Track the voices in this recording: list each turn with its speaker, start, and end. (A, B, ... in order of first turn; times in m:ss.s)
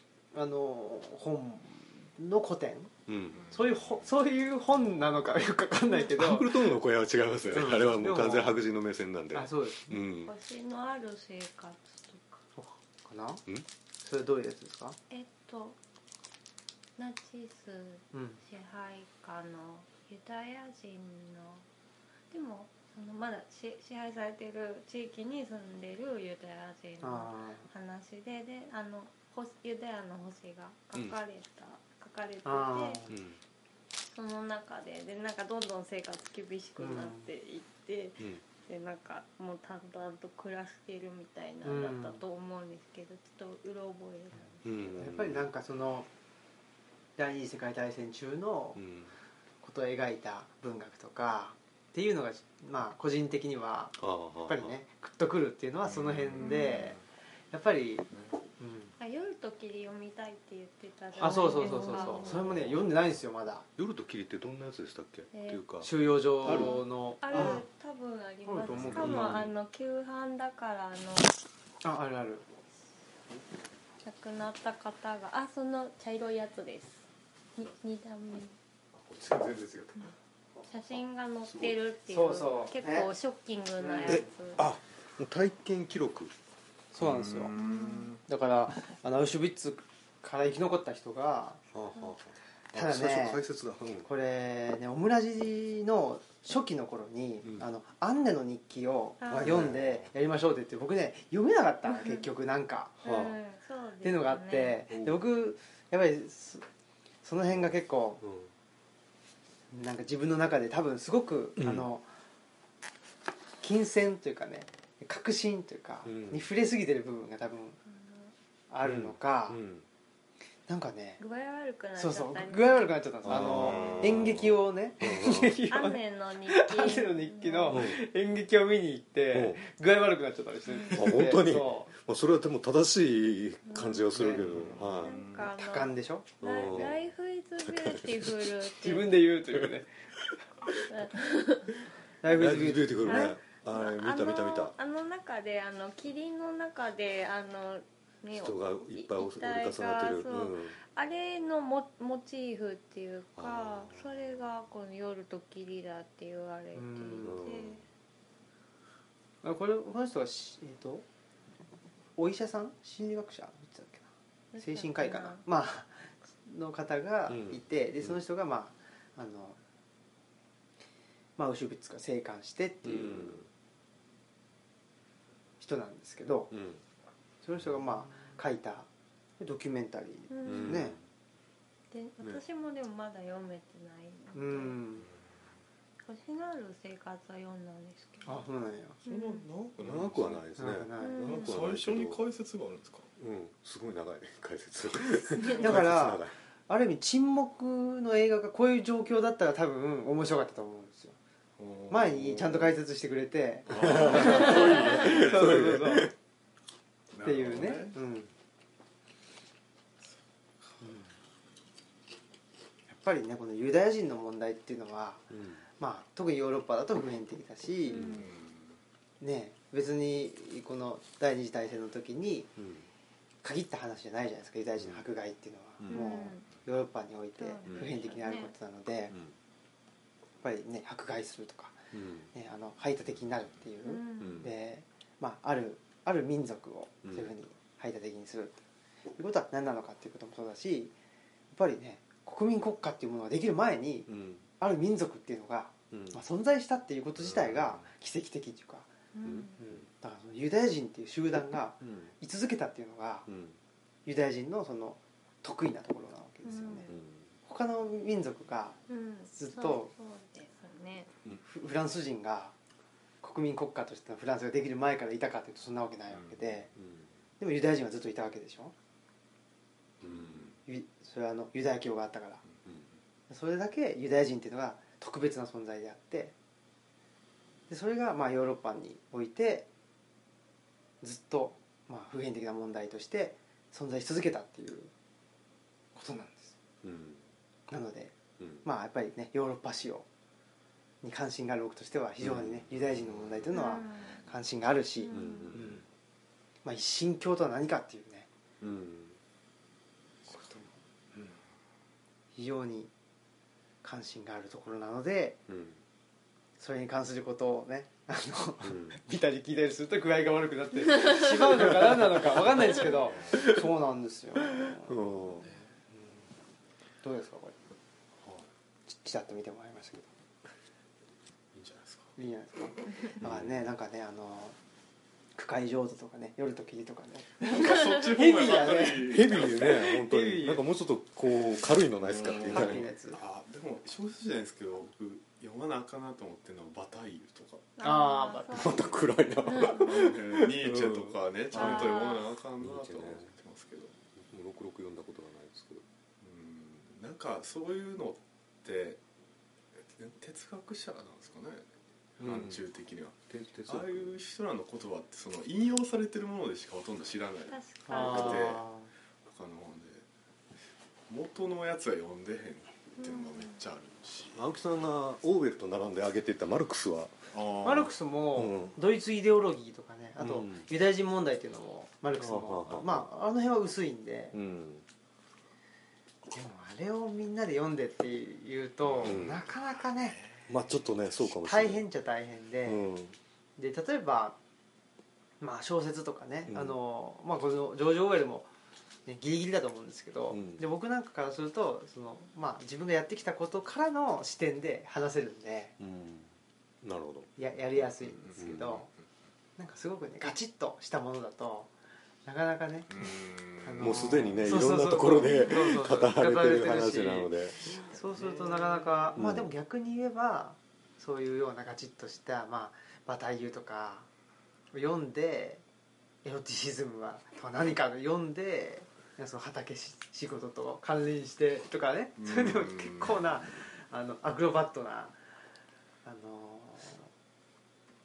0:00.3-0:02.9 A
0:03.1-0:03.4 B
0:03.3-0:03.7 C
0:03.5-0:06.6 A
0:06.0-0:10.3 B
0:07.5-0:08.6 A
0:09.3-0:10.0 A
0:10.2-0:12.4 D
0:12.6-0:13.4 A
0:14.0-0:15.0 A
0:15.1-0:15.8 D
0:17.0-0:21.6 D
0:18.1-0:18.4 A
0:22.3-0:33.0 D
0:27.0-0:27.7 A
0:32.4-0:33.2 A
0:33.1-0:33.4 B
0:34.1-0:45.0 D
0:36.8-0:37.3 A
0:41.6-0:42.2 A
0:44.6-0:45.5 B
0:45.0-0:46.1 A
0:47.2-0:48.8 A
0:48.8-0:49.1 B
0:49.6-0:57.0 A
0:54.0-0:54.8 B
0:55.8-0:57.0 C
0:56.4-0:56.9 D
0:57.5-0:58.1 A
0:58.6-0:58.9 A
0:59.0-1:02.5 D
1:01.2-1:03.7 A
1:01.3-1:02.8 B
1:03.8-1:05.9 B
1:05.3-1:05.6 D
1:05.8-1:07.6 A
1:06.4-1:07.6 B
1:06.4-1:11.3 D
1:08.5-1:09.4 A
1:08.8-1:09.5 B
1:11.8-1:12.4 A
1:14.0-1:18.6 D
1:18.9-1:20.1 B
1:20.7-1:24.7 D
1:21.5-1:21.7 B
1:22.1-1:23.1 A
1:23.8-1:24.3 A
1:24.1-1:26.3 B
1:26.9-1:27.5 A
1:27.0-1:28.2 C
1:27.6-1:28.1 D
1:28.3-1:31.6 A
1:31.7-1:34.1 B
1:32.7-1:33.4 A
1:34.0-1:43.0 A
1:39.2-1:39.7 D
1:39.2-1:40.1 B
1:41.9-1:42.2 D
1:43.0-1:44.8 D
1:43.0-1:43.4 B
1:44.0-1:46.6 A
1:44.9-1:45.2 B
1:47.2-1:48.2 A
1:48.2-1:48.5 B
1:49.7-1:52.1 A
1:51.6-1:51.9 B
1:53.6-1:57.8 A
1:56.0-1:56.5 B
1:57.9-1:58.3 D
1:58.7-1:59.6 A
1:58.8-1:59.8 B
2:00.7-2:01.2 A
2:01.2-2:03.0 D
2:02.0-2:11.9 A
2:03.2-2:05.6 B
2:05.7-2:07.8 D
2:07.7-2:08.0 B
2:09.3-2:09.6 B
2:10.7-2:11.0 D
2:10.9-2:15.2 B
2:13.7-2:19.2 D
2:14.1-2:14.4 A
2:14.3-2:15.5 C
2:15.5-2:16.9 A
2:16.4-2:17.1 B
2:17.6-2:18.5 B
2:18.8-2:19.9 A
2:20.8-2:21.9 D
2:22.2-2:23.4 A
2:22.3-2:24.8 B
2:23.0-2:37.8 D
2:28.3-2:30.8 B
2:33.4-2:34.0 B
2:36.8-2:37.4 A
2:37.2-2:37.8 B
2:39.4-2:41.0 A
2:42.2-2:49.6 A
2:44.5-2:45.4 D
2:47.3-2:48.2 B
2:51.4-2:53.5 A
2:52.8-2:53.5 B
2:55.6-2:56.5 A
2:56.5-2:56.8 B
2:57.4-2:58.9 A
2:59.4-3:01.0 A
3:00.3-3:00.9 D
3:00.4-3:01.0 B
3:01.9-3:04.8 D
3:04.3-3:05.1 A
3:06.0-3:08.4 D
3:08.3-3:09.0 A
3:09.0-3:09.5 D
3:09.1-3:10.5 C
3:09.8-3:12.2 B
3:10.6-3:11.3 A
3:11.0-3:11.5 D
3:11.2-3:13.1 C
3:13.2-3:16.4 B
3:15.4-3:21.2 A
3:21.6-3:22.7 C
3:21.9-3:26.1 A
3:23.7-3:26.1 B
3:23.7-3:25.3 C
3:24.2-3:25.0 D
3:27.1-3:28.0 C
3:27.2-3:28.3 A
3:30.8-3:31.1 A
3:32.9-3:35.2 A
3:35.3-3:35.6 B
3:35.8-3:38.1 A
3:37.8-3:38.3 D
3:38.0-3:38.3 B
3:38.1-3:38.7 C
3:39.2-3:42.5 A
3:42.6-3:42.9 B
3:43.4-3:49.2 A
3:44.8-3:45.0 B
3:45.8-3:46.1 B
3:45.9-3:46.5 D
3:47.4-3:48.5 D
3:47.7-3:47.9 B
3:49.1-3:49.4 B
3:50.4-3:51.8 A
3:51.9-3:52.3 B
3:52.3-3:58.6 A
3:53.8-3:54.5 D
3:54.2-3:54.5 B
3:57.0-3:57.3 B
3:59.2-4:00.9 A
4:01.5-4:08.9 A
4:04.1-4:04.4 B
4:05.9-4:06.2 B
4:09.1-4:09.6 D
4:09.2-4:09.9 B
4:09.6-4:13.3 A
4:11.8-4:12.1 B
4:13.3-4:13.6 B
4:14.1-4:16.9 A
4:16.4-4:16.9 D
4:16.9-4:17.3 B
4:17.4-4:18.8 A
4:18.9-4:21.1 D
4:19.3-4:19.9 A
4:21.4-4:22.6 A
4:23.2-4:26.7 A
4:26.1-4:26.6 C
4:26.8-4:27.1 B
4:27.4-4:28.7 A
4:30.0-4:30.5 B
4:30.1-4:30.6 C
4:30.7-4:32.4 A
4:33.3-4:36.3 A
4:37.7-4:39.7 A
4:41.0-4:44.9 A
4:46.0-4:46.6 A
4:46.8-4:47.3 B
4:47.7-4:50.1 A
4:48.4-4:48.7 B
4:51.0-4:55.8 A
4:52.2-4:52.7 B
4:53.5-4:54.2 D
4:55.0-4:55.6 D
4:55.1-4:55.8 B
4:56.6-4:58.3 A
4:58.6-4:59.2 B
5:00.3-5:00.8 A
5:02.4-5:02.9 A
5:03.8-5:05.4 A
5:05.5-5:05.8 B
5:06.6-5:15.0 A
5:08.6-5:09.0 B
5:12.8-5:13.4 C
5:14.8-5:15.5 B
5:15.4-5:15.7 C
5:17.0-5:17.6 A
5:18.2-5:18.5 C
5:18.9-5:20.1 A
5:21.5-5:22.1 C
5:22.2-5:24.6 A
5:23.2-5:23.5 B
5:25.4-5:30.6 A
5:27.4-5:29.8 C
5:28.9-5:32.9 B
5:32.0-5:37.7 C
5:32.4-5:33.2 A
5:37.8-5:40.0 D
5:37.8-5:38.9 A
5:38.5-5:42.0 B
5:39.8-5:43.9 C
5:41.5-5:42.3 D
5:42.6-5:43.3 B
5:44.2-5:45.8 B
5:46.2-5:49.0 C
5:49.9-5:51.6 C
5:52.2-5:58.6 C
5:52.2-5:52.6 B
5:53.3-5:54.2 B
5:57.5-5:58.6 D
5:57.9-5:58.9 A
5:59.2-6:00.1 C
6:01.1-6:04.4 C
6:03.0-6:03.6 D
6:04.3-6:07.2 B
6:07.3-6:07.9 C
6:07.6-6:14.4 A
6:08.4-6:08.8 B
6:10.2-6:10.7 B
6:12.2-6:13.1 B
6:14.3-6:14.8 B
6:16.3-6:20.2 A
6:18.8-6:19.3 C
6:19.0-6:19.5 B
6:20.0-6:20.5 C
6:20.5-6:21.8 B
6:21.4-6:22.9 A
6:22.6-6:23.2 B
6:23.6-6:24.4 A
6:25.4-6:28.5 A
6:26.5-6:26.8 B
6:29.1-6:35.7 A
6:30.3-6:30.6 B
6:35.8-6:37.3 B
6:37.4-6:38.9 A
6:38.2-6:39.0 C
6:38.4-6:38.7 B
6:39.6-6:41.7 A
6:42.2-6:42.9 A
6:42.9-6:44.2 C
6:43.6-6:54.1 A
6:43.8-6:47.7 B
6:47.8-6:48.8 C
6:49.2-6:49.5 B
6:54.7-6:55.6 A
6:56.2-7:05.2 A
7:02.2-7:03.3 C
7:06.0-7:07.1 A